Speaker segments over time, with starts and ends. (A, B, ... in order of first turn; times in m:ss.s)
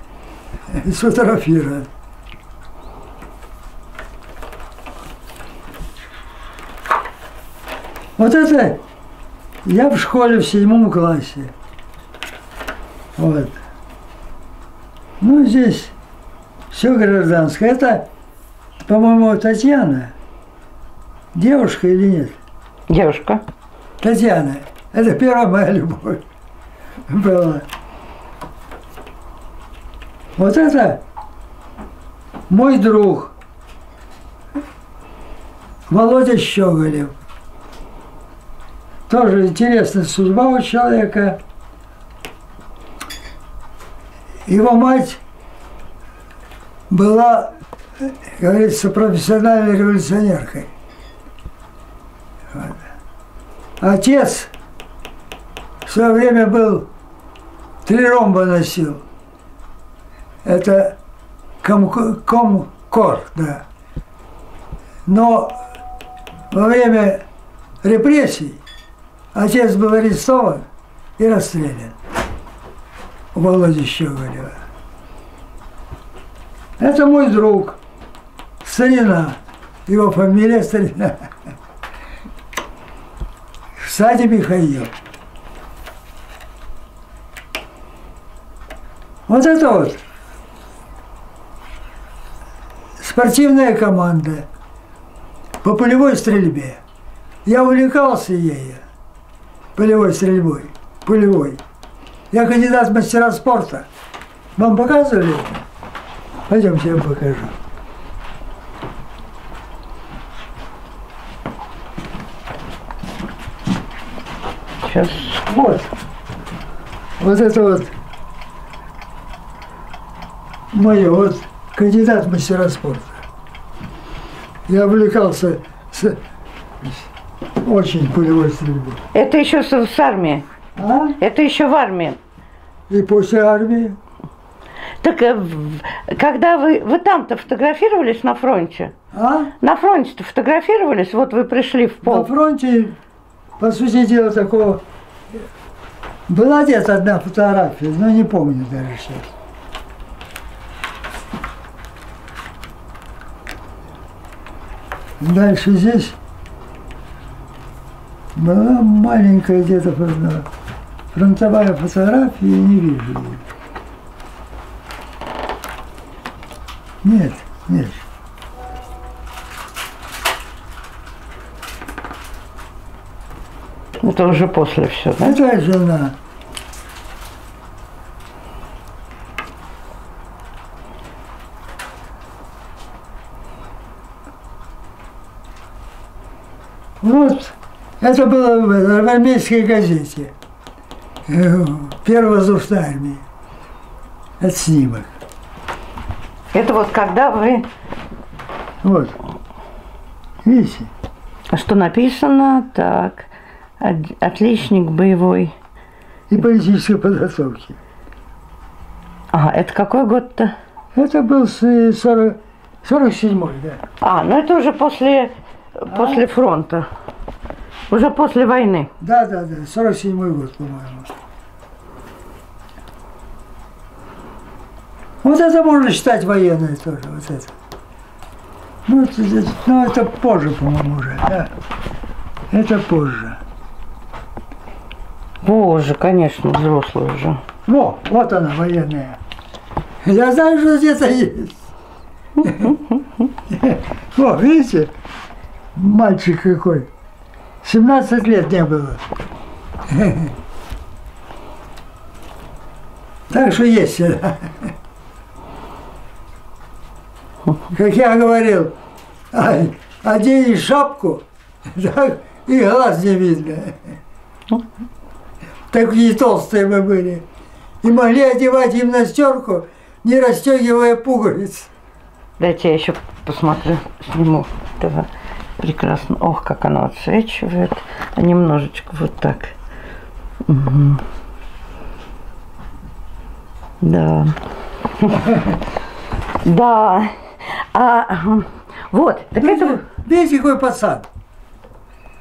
0:00.7-0:01.9 A
0:08.2-0:08.8 A
0:09.6-0:11.5 A
0:13.2-0:13.6 A
0:15.2-0:15.9 A
0:16.7-0:18.1 A
0:18.9-0:20.1 A
0:21.3-0:22.3 A
0:22.9-0:23.4 B
0:24.0-0:26.2 A
0:27.1-0:27.6 A
0:30.4-0:31.0 A
0:32.5-0:33.3 A
0:35.9-0:37.1 A
0:39.1-0:41.4 A
0:44.4-0:45.2 A
0:46.9-0:50.7 A
0:53.8-0:54.5 A
0:55.8-0:56.9 A
0:57.8-0:59.0 A
1:00.4-1:01.0 A
1:01.6-1:03.6 A
1:05.1-1:05.6 A
1:06.5-1:07.2 A
1:07.8-1:08.6 A
1:09.3-1:10.6 A
1:11.2-1:11.9 A
1:13.3-1:14.6 A
1:16.8-1:17.8 A
1:18.6-1:21.2 A
1:23.8-1:24.9 A
1:29.3-1:30.0 A
1:33.0-1:34.5 A
1:35.6-1:36.8 A
1:37.4-1:38.8 A
1:39.8-1:41.6 A
1:42.3-1:43.9 A
1:44.6-1:45.6 A
1:46.5-1:47.5 A
1:54.8-1:55.4 B
1:55.4-1:55.9 A
1:57.2-1:57.9 A
2:00.7-2:03.2 A
2:04.7-2:06.2 A
2:07.6-2:09.0 A
2:09.1-2:10.4 B
2:10.8-2:11.2 A
2:11.2-2:12.2 B
2:12.9-2:14.0 A
2:15.0-2:18.9 B
2:19.1-2:19.5 A
2:19.6-2:22.3 B
2:22.0-2:23.0 A
2:23.6-2:24.8 A
2:26.3-2:29.3 A
2:35.2-2:36.2 A
2:38.3-2:40.5 A
2:41.1-2:43.4 A
2:47.0-2:48.0 A
2:54.0-2:55.4 B
2:55.2-2:56.1 A
3:07.0-3:10.3 A
3:11.3-3:13.2 A
3:14.4-3:15.1 A
3:16.5-3:17.6 B
3:18.8-3:19.1 A
3:20.4-3:20.9 A
3:21.5-3:23.3 B
3:23.8-3:25.5 B
3:26.3-3:27.8 A
3:29.3-3:30.5 B
3:30.9-3:33.8 A
3:34.0-3:36.8 B
3:35.9-3:36.2 A
3:37.9-3:38.9 B
3:39.0-3:41.1 A
3:45.2-3:47.5 A
3:48.9-3:51.5 A
3:52.5-3:53.4 A
3:55.4-3:57.4 B
3:57.6-3:59.2 A
4:00.0-4:01.6 A
4:02.4-4:02.7 A
4:03.5-4:04.9 A
4:05.7-4:06.9 A
4:07.6-4:09.0 A
4:09.9-4:10.3 A
4:13.3-4:14.7 A
4:17.7-4:18.7 A
4:19.3-4:24.0 A
4:25.7-4:27.2 A
4:27.8-4:31.7 A
4:32.4-4:39.5 B
4:40.4-4:41.0 B
4:43.8-4:45.4 B
4:46.4-4:49.8 B
4:49.4-4:51.1 A